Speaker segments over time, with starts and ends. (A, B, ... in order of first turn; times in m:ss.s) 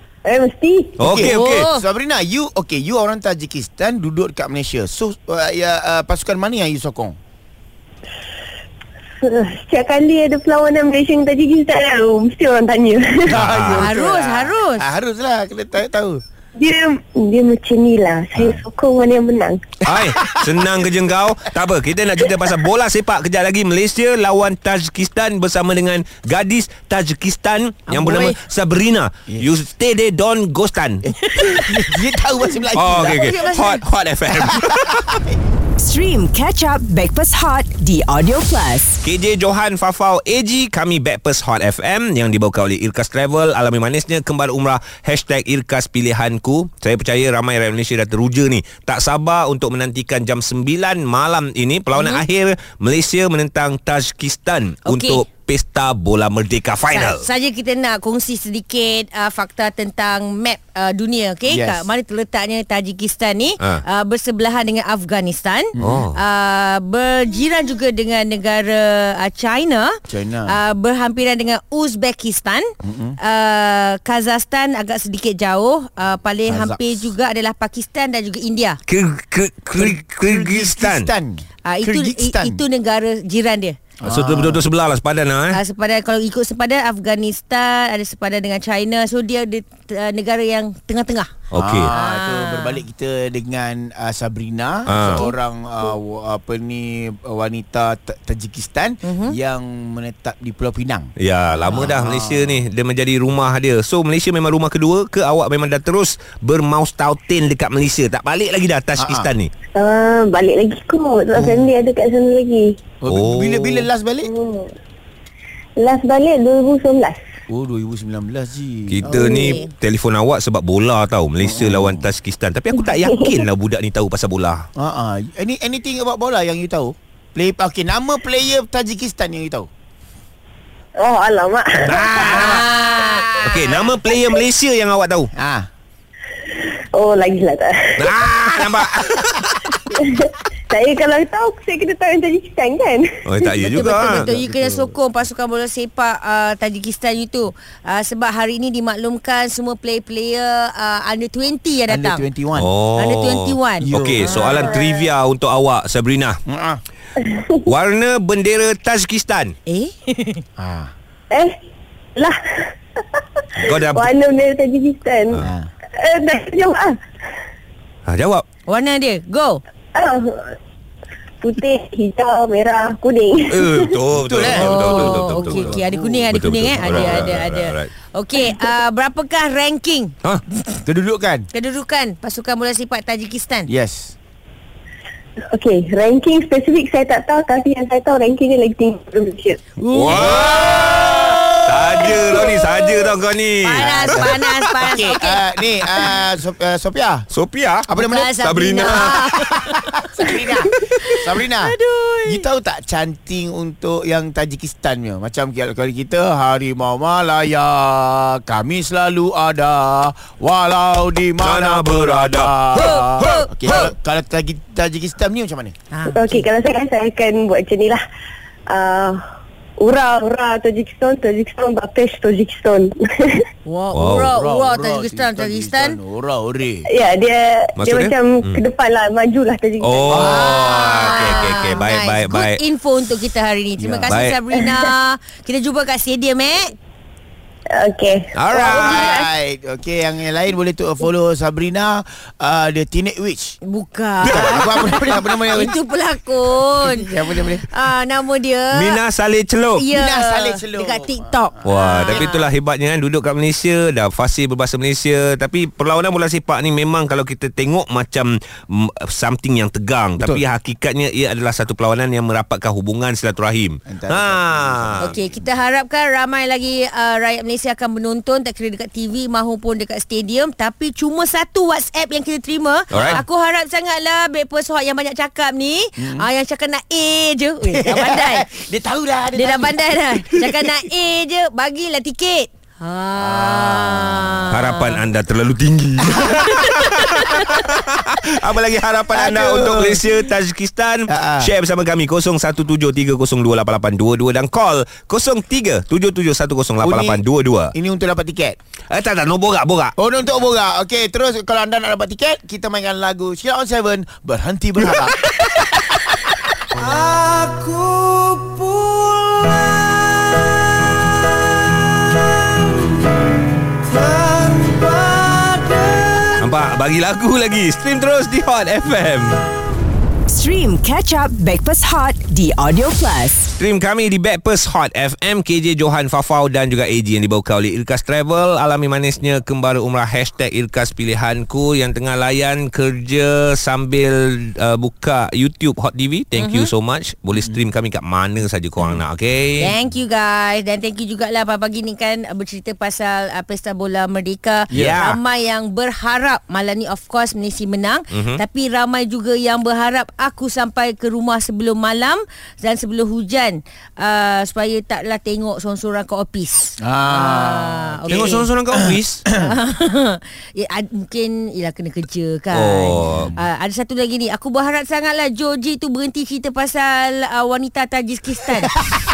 0:00.2-0:01.0 A
0:01.0-0:01.7 B
0:01.0-0:07.2 C
0:01.2-0:01.8 D
0:09.2-0:13.4 A
0:13.2-0:16.2 C
0:13.3-0:13.9 B
0:13.7-0:14.9 D
0:16.6-0:19.6 A
0:19.8-0:31.0 B
0:19.9-0:20.6 C
0:27.9-0:28.3 D
0:31.0-0:33.5 C
0:31.2-0:31.9 D
0:32.7-0:35.2 B
0:32.9-0:33.8 D
0:34.3-0:35.4 C
0:35.8-0:39.0 E
0:39.0-0:57.2 B
0:51.9-0:52.2 D
0:54.9-0:55.2 D
0:56.9-1:12.7 D
1:01.5-1:01.9 C
1:05.8-1:06.1 C
1:05.8-1:06.2 B
1:10.1-1:10.6 C
1:12.8-1:13.2 C
1:13.2-1:18.8 D
1:16.4-1:17.1 C
1:18.9-1:21.1 B
1:19.7-1:22.6 C
1:21.6-1:23.8 D
1:24.0-1:24.6 C
1:24.0-1:25.6 B
1:25.5-1:31.3 D
1:31.5-1:31.9 B
1:31.5-1:41.1 C
1:31.9-1:32.8 D
1:34.9-1:35.3 B
1:39.0-1:39.3 D
1:41.2-1:49.5 B
1:41.7-1:42.6 C
1:49.0-1:49.3 C
1:49.7-1:52.8 A
1:51.3-1:51.7 C
1:53.0-1:54.3 C
1:53.1-1:53.9 B
1:54.2-1:54.7 A
1:55.8-1:57.2 A
1:57.5-1:59.5 C
1:58.9-2:04.7 B
1:59.0-1:59.6 A
1:59.3-1:59.7 D
2:01.4-2:02.1 C
2:02.8-2:03.4 A
2:04.8-2:09.7 C
2:11.0-2:12.0 A
2:11.8-2:12.7 B
2:11.8-2:13.5 C
2:12.2-2:13.6 D
2:13.4-2:15.3 B
2:15.3-2:15.7 C
2:16.5-2:18.0 A
2:18.0-2:19.6 B
2:19.9-2:23.5 A
2:23.2-2:24.3 B
2:23.6-2:32.2 D
2:23.8-2:24.9 C
2:31.9-2:32.7 C
2:32.6-2:36.4 B
2:33.0-2:34.6 D
2:33.8-2:34.6 C
2:34.3-2:35.0 A
2:36.5-2:36.8 C
2:37.2-2:37.6 A
2:37.6-2:39.5 B
2:39.7-2:40.4 D
2:40.6-2:40.9 C
2:42.2-2:46.9 A
2:43.6-2:44.1 B
2:45.4-2:45.7 C
2:48.1-2:48.4 B
2:48.7-2:49.6 D
2:49.9-2:50.6 A
2:51.4-2:53.9 A
2:53.5-2:57.9 B
2:54.2-2:57.4 C
2:54.4-3:00.8 D
3:00.8-3:01.5 C
3:01.5-3:03.7 D
3:03.7-3:04.1 C
3:05.5-3:09.7 A
3:09.8-3:10.5 D
3:09.9-3:14.8 B
3:10.1-3:12.6 C
3:13.6-3:16.2 D
3:13.8-3:17.2 C
3:17.3-3:19.4 B
3:17.9-3:35.7 C
3:18.0-3:22.4 D
3:31.4-3:33.9 B
3:32.7-3:33.5 D
3:35.9-3:36.4 D
3:36.1-3:38.0 A
3:38.7-3:39.2 A
3:39.8-3:43.4 A
3:43.6-3:46.0 D
3:43.9-3:44.3 B
3:44.3-3:46.9 C
3:46.9-3:50.9 A
3:47.8-3:48.6 B
3:49.8-3:52.6 B
3:50.1-3:50.6 C
3:50.3-3:56.7 D
3:53.8-3:54.2 C
3:54.1-3:54.4 B
3:57.7-3:59.3 A
3:58.3-3:59.2 B
3:58.5-4:03.6 C
4:03.7-4:07.1 D
4:04.2-4:05.7 C
4:04.3-4:05.0 B
4:06.8-4:07.6 C
4:07.7-4:09.0 D
4:08.7-4:09.9 B
4:09.8-4:12.5 D
4:09.9-4:12.2 C
4:11.6-4:25.2 B
4:20.2-4:20.4 C
4:23.9-4:25.4 C
4:25.0-4:38.5 D
4:32.9-4:33.2 B
4:33.0-4:33.2 C
4:36.0-4:36.3 C
4:37.7-4:40.4 C
4:39.3-4:45.0 D
4:43.1-4:44.5 C
4:44.5-4:57.7 B
4:49.1-4:50.0 C
4:51.1-4:51.5 C
4:56.8-4:57.2 C
4:57.7-4:58.6 C
4:58.9-4:59.9 B
5:00.0-5:05.2 C
5:04.8-5:09.8 B
5:13.9-5:15.4 B
5:15.6-5:16.3 C
5:16.4-5:19.4 B
5:20.3-5:23.6 E
5:23.6-5:39.7 B
5:36.4-5:36.7 D
5:39.6-5:58.5 D
5:44.7-5:45.0 C
5:44.7-5:45.2 B
5:48.1-5:48.4 B
5:56.8-5:59.5 C
5:58.1-5:59.2 B
5:59.3-6:08.7 D
6:02.5-6:03.3 B
6:03.1-6:03.4 C